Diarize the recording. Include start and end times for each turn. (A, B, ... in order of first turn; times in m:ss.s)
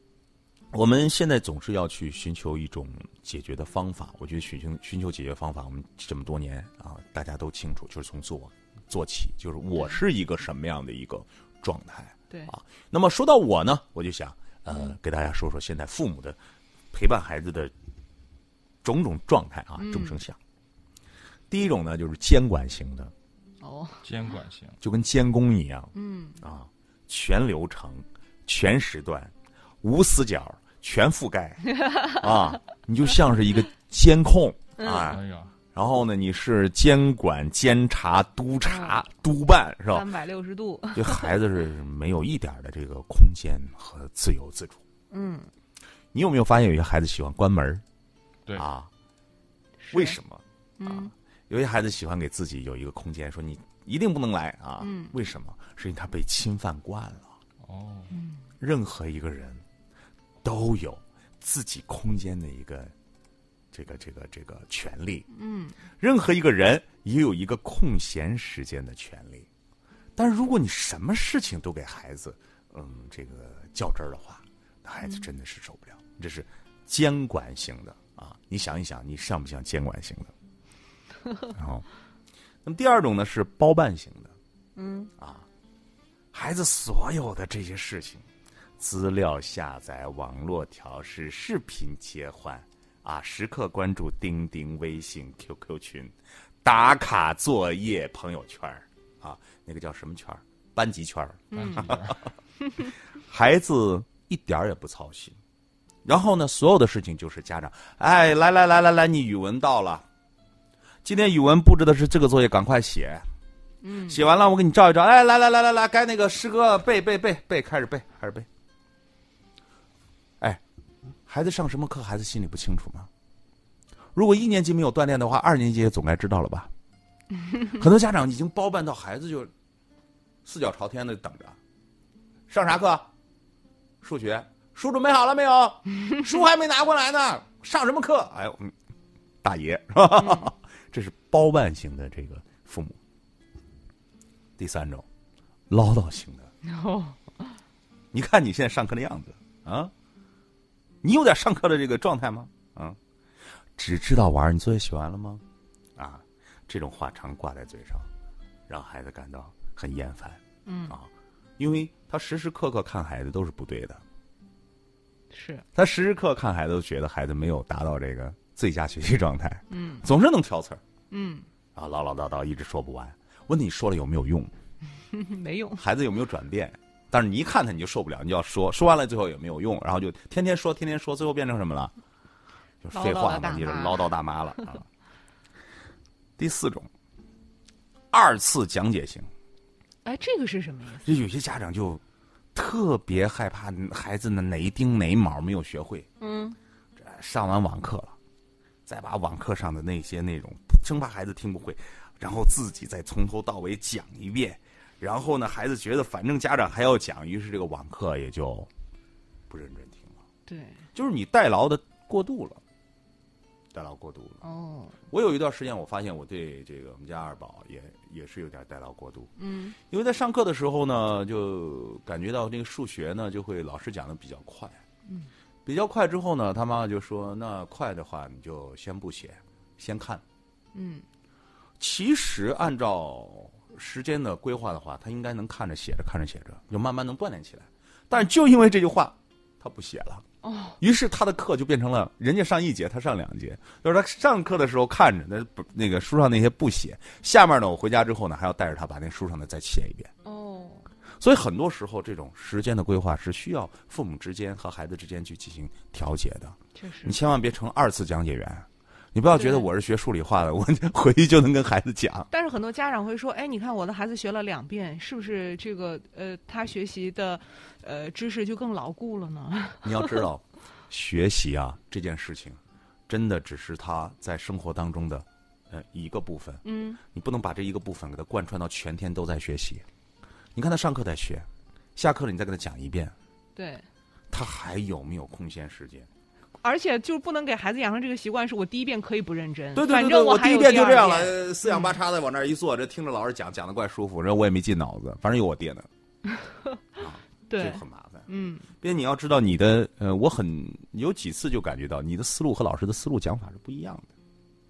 0:00.7-0:16.4 A
0:16.9-0:17.7 A
0:18.8-0:20.4 A
0:19.8-0:20.2 B
0:21.5-0:23.1 A
0:23.6-0:24.1 B
0:24.0-0:24.8 C
0:24.8-0:35.2 A
0:25.9-0:26.4 B
0:34.8-0:35.2 B
0:35.1-0:35.5 C
0:35.7-0:40.1 A
0:38.6-0:39.0 B
0:39.9-0:41.3 B
0:40.9-0:44.8 A
0:45.1-0:45.5 B
0:46.1-0:47.8 A
0:48.5-0:48.9 A
0:49.8-0:50.2 B
0:49.9-0:57.3 A
0:50.8-0:51.1 B
0:54.8-0:55.1 B
0:57.6-0:58.1 C
0:58.1-0:58.4 B
0:58.6-0:59.6 A
1:00.4-1:02.9 A
1:03.7-1:05.3 A
1:05.3-1:05.8 B
1:06.0-1:09.5 A
1:10.2-1:20.3 A
1:21.5-1:21.9 A
1:22.6-1:24.3 A
1:24.8-1:25.1 B
1:25.2-1:25.5 A
1:26.3-1:28.3 A
1:28.8-1:42.2 A
1:41.5-1:41.9 B
1:41.5-1:42.2 C
1:43.3-1:45.4 A
1:46.0-1:50.0 A
1:51.0-1:53.2 A
1:53.8-1:54.2 B
1:54.1-1:58.5 A
2:01.3-2:03.1 A
2:04.2-2:06.7 A
2:07.7-2:09.5 A
2:10.4-2:11.6 A
2:12.5-2:13.1 A
2:14.0-2:18.7 A
2:19.4-2:23.0 A
2:20.2-2:20.5 B
2:24.6-2:25.1 A
2:25.7-2:26.5 A
2:26.6-2:27.6 B
2:28.1-2:29.9 A
2:31.0-2:33.0 A
2:33.8-2:35.4 A
2:36.0-2:38.1 A
2:38.7-2:44.0 A
2:40.7-2:41.0 B
2:45.3-2:45.7 B
2:45.8-2:50.8 A
2:49.7-2:50.1 B
2:51.1-2:51.5 B
2:51.8-2:54.5 A
2:55.1-2:55.8 B
2:55.8-3:01.9 A
3:02.8-3:04.9 A
3:02.9-3:04.1 B
3:06.4-3:06.9 A
3:08.1-3:09.3 A
3:10.0-3:11.1 B
3:11.0-3:12.0 A
3:12.6-3:16.1 A
3:16.2-3:16.6 B
3:17.0-3:18.2 A
3:18.9-3:28.7 A
3:29.5-3:30.2 A
3:30.5-3:30.8 B
3:30.9-3:32.6 A
3:33.7-3:34.4 A
3:34.4-3:35.0 B
3:35.1-3:44.8 A
3:39.4-3:39.8 B
3:45.6-3:50.2 A
3:50.7-3:51.0 B
3:51.8-4:00.2 A
4:00.4-4:00.8 B
4:00.8-4:10.1 A
4:10.2-4:10.9 B
4:11.2-4:22.3 A
4:16.8-4:17.2 B
4:19.3-4:19.7 B
4:22.3-4:30.2 B
4:29.8-4:39.8 A
4:36.6-4:37.0 B
4:40.6-4:43.1 A
4:43.6-4:43.9 B
4:44.3-4:46.1 A
4:46.6-4:51.9 B
4:49.8-4:55.9 A
4:56.3-4:56.8 B
4:57.0-5:04.1 A
4:57.5-4:58.7 B